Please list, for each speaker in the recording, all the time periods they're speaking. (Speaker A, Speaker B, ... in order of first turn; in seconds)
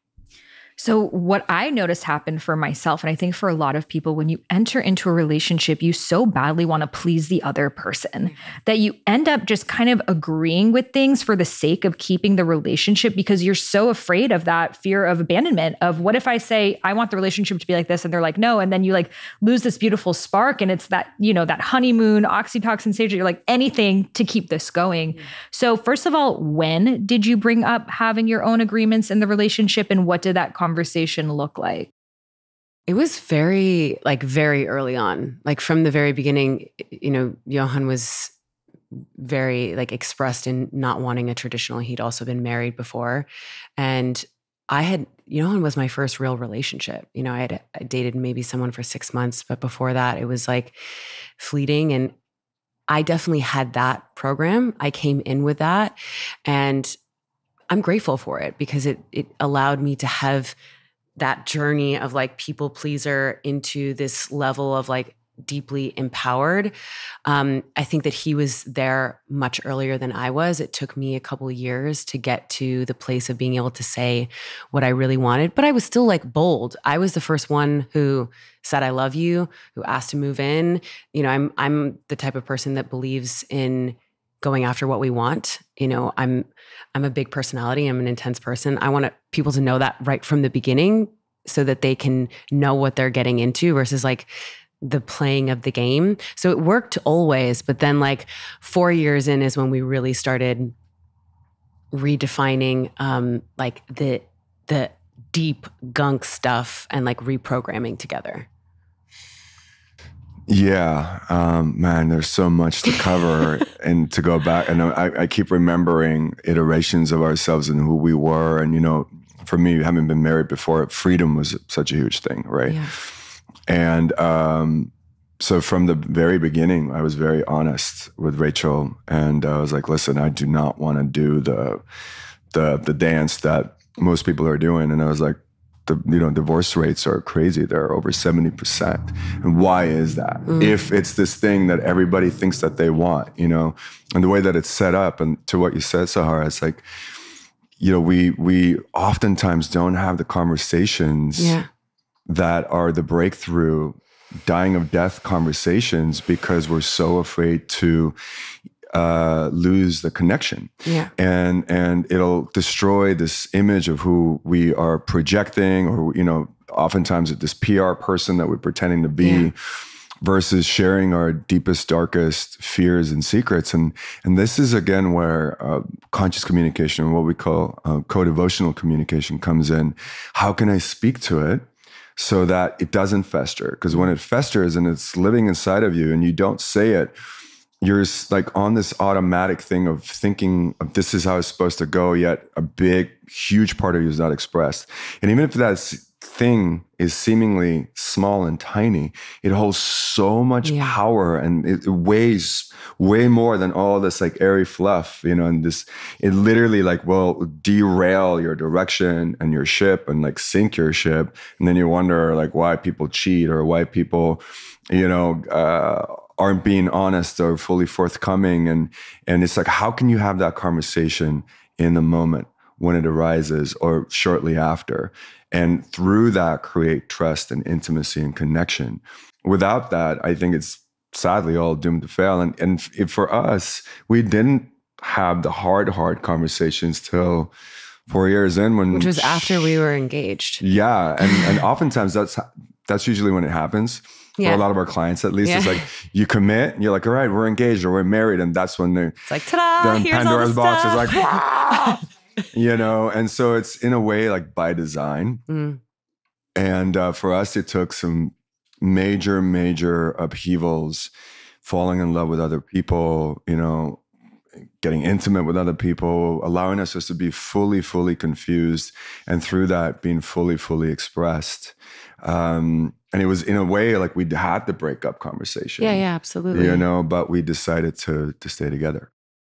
Speaker A: 0.8-31.9
Speaker B: 32.9-38.3, 39.1-50.7, 51.4-52.1, 52.9-57.0, 57.7-60.5, 61.2-66.7, 67.2-94.3, 94.8-100.7, 101.9-108.5, 122.7-122.9, 140.5-140.7, 151.4-151.7, 160.8-161.1, 169.2-169.5, 200.6-201.0, 238.9-240.6, 241.2-241.6, 244.4-244.6, 245.4-245.8, 249.3-252.0, 255.5-255.8, 275.8-276.8
Speaker C: 110.5-122.8, 123.7-131.8, 132.5-146.8, 147.8-151.6, 152.3-158.2, 158.9-169.6, 170.2-187.1, 187.8-237.5, 238.1-239.7, 240.6-252.0, 252.5-255.4, 256.6-261.1, 261.6-264.0, 264.8-279.1